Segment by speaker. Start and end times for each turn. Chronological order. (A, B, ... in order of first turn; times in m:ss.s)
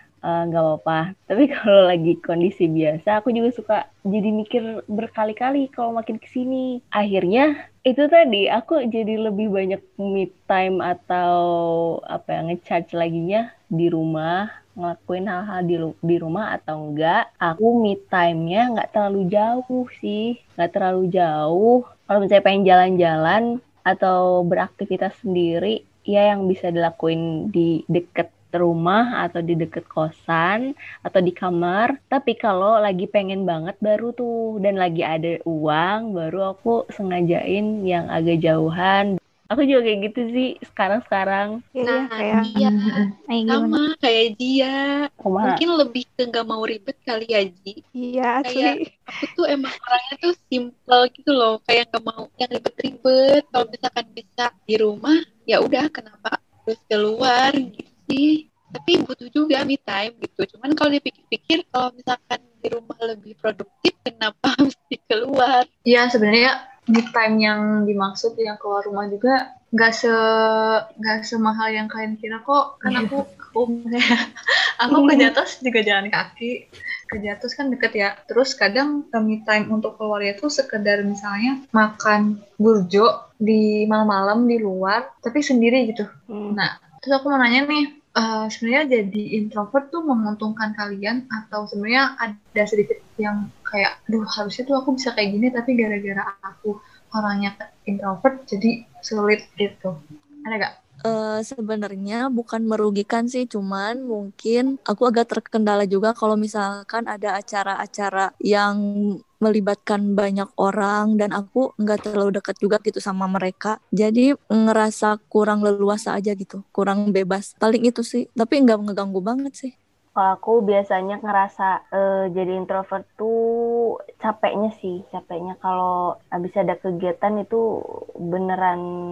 0:00.3-0:11.3 A
0:12.1-0:41.5 A
0:41.8-0:42.5 B
0:41.9-0:44.8 C
0:42.6-0:43.1 D
0:43.3-0:43.8 B
0:45.2-0:45.6 A
0:45.4-0:47.8 C
0:48.0-0:49.0 B
0:48.4-1:05.7 C
1:05.9-1:10.1 D
1:11.0-1:14.1 D
1:14.8-1:16.5 D
1:17.1-1:39.9 D
1:26.3-1:26.6 A
1:40.4-1:40.7 D
1:41.1-1:48.8 E
1:49.4-1:59.7 E
2:00.2-2:03.3 A
2:04.2-2:07.6 A
2:08.3-2:08.8 A